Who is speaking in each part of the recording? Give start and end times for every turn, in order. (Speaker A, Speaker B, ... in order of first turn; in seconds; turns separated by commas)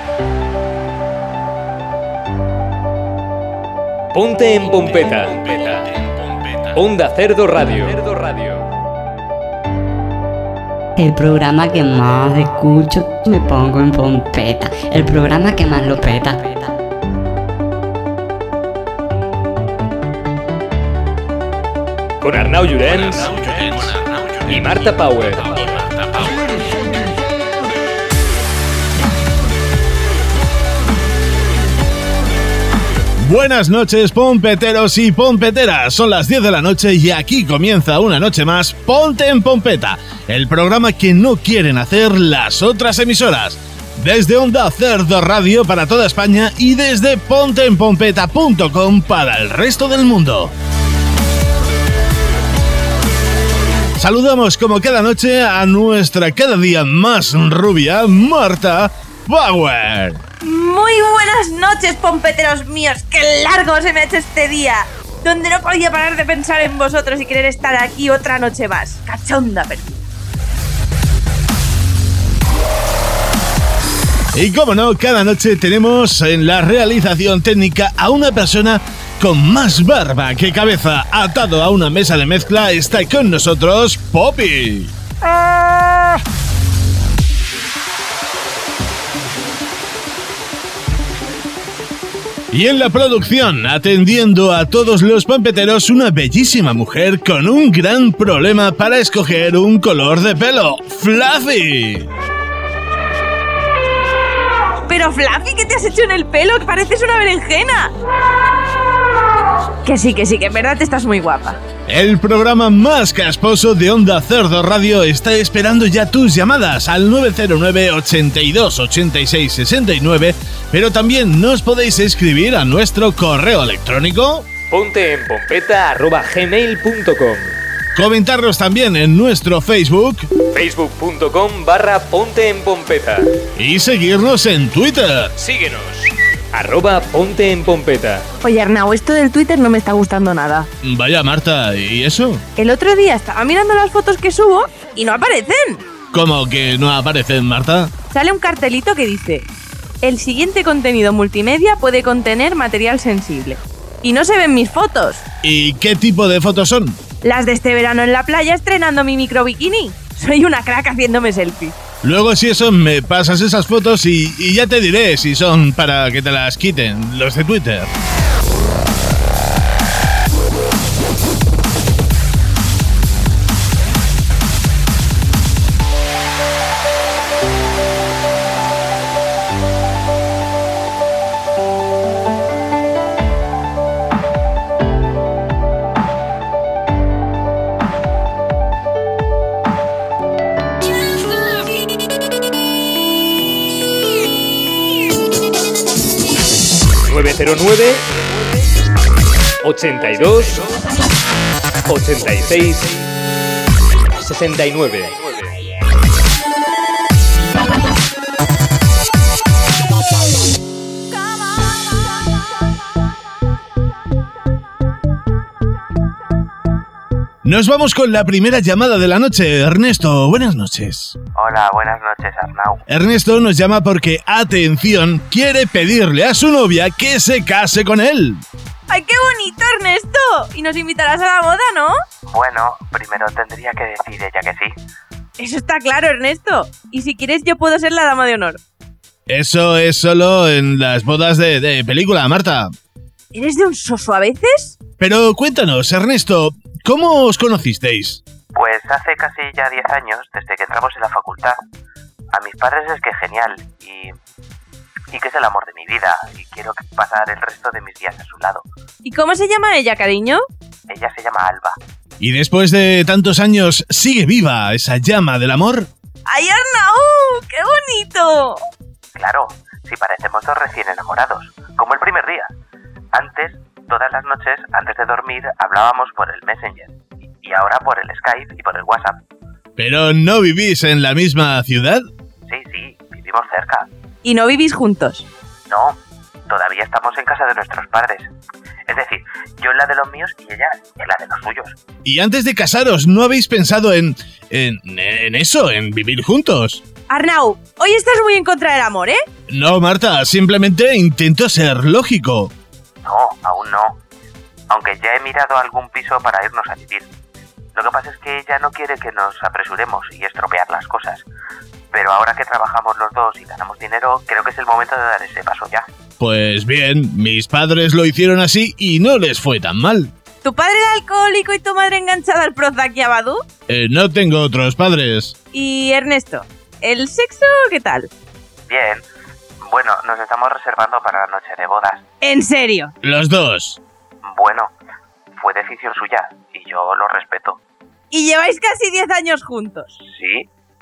Speaker A: 4.1-5.9, Speaker B: 6.5-6.7, Speaker A: 6.8-8.6, Speaker C: 11.0-16.7, Speaker A: 22.2-23.3, Speaker B: 23.0-24.9, Speaker A: 24.5-25.6, Speaker B: 26.0-26.3, Speaker B: 33.2-50.5, Speaker B: 54.0-60.2, Speaker D: 60.4-70.0, Speaker B: 74.3-85.6, Speaker B: 92.5-102.1, Speaker D: 104.9-107.9, Speaker D: 109.8-111.6, Speaker B: 111.9-124.5, Speaker A: 124.7-127.5, Speaker B: 128.0-130.3, Speaker A: 130.5-133.3, Speaker B: 133.6-135.3, Speaker A: 135.4-138.2, Speaker D: 138.4-140.7, Speaker B: 140.8-142.4, Speaker D: 142.6-145.8, Speaker B: 146.1-147.9, Speaker D: 148.1-149.5, Speaker D: 150.0-155.2, Speaker B: 155.4-157.0, Speaker D: 157.2-161.8, Speaker B: 162.0-167.9, Speaker A: 197.1-198.0, Speaker A: 199.6-200.6, Speaker A: 201.9-203.0, Speaker A: 204.2-205.5, Speaker B: 217.4-221.2, Speaker E: 221.3-222.8, Speaker B: 222.9-228.4, Speaker D: 228.9-231.9, Speaker E: 232.3-234.7, Speaker D: 235.4-238.6, Speaker B: 239.3-242.7, Speaker D: 243.3-244.8, Speaker B: 245.0-248.2, Speaker E: 248.5-251.6, Speaker E: 252.3-254.1, Speaker E: 255.1-258.6, Speaker D: 259.0-260.4, Speaker E: 260.9-261.8, Speaker B: 262.2-265.9, Speaker D: 266.3-268.6, Speaker E: 269.2-272.5, Speaker E: 273.1-279.2, Speaker B: 279.8-282.0, Speaker E: 282.5-283.9, Speaker D: 284.2-285.3, Speaker E: 285.7-288.3, Speaker E: 288.9-291.8, Speaker B: 292.1-296.8, Speaker D: 297.1-299.2, Speaker B: 299.5-302.5, Speaker E: 303.0-304.0, Speaker E: 304.7-307.1, Speaker E: 307.8-311.3, Speaker E: 311.9-315.9, Speaker B: 316.2-320.1, Speaker D: 320.4-323.4, Speaker B: 323.7-325.4, Speaker D: 325.5-328.1, Speaker E: 328.7-329.1, Speaker E: 329.6-332.0, Speaker D: 332.2-332.9, Speaker B: 333.0-333.8, Speaker E: 334.2-334.7, Speaker E: 335.4-337.6, Speaker D: 338.1-339.9, Speaker E: 340.1-340.5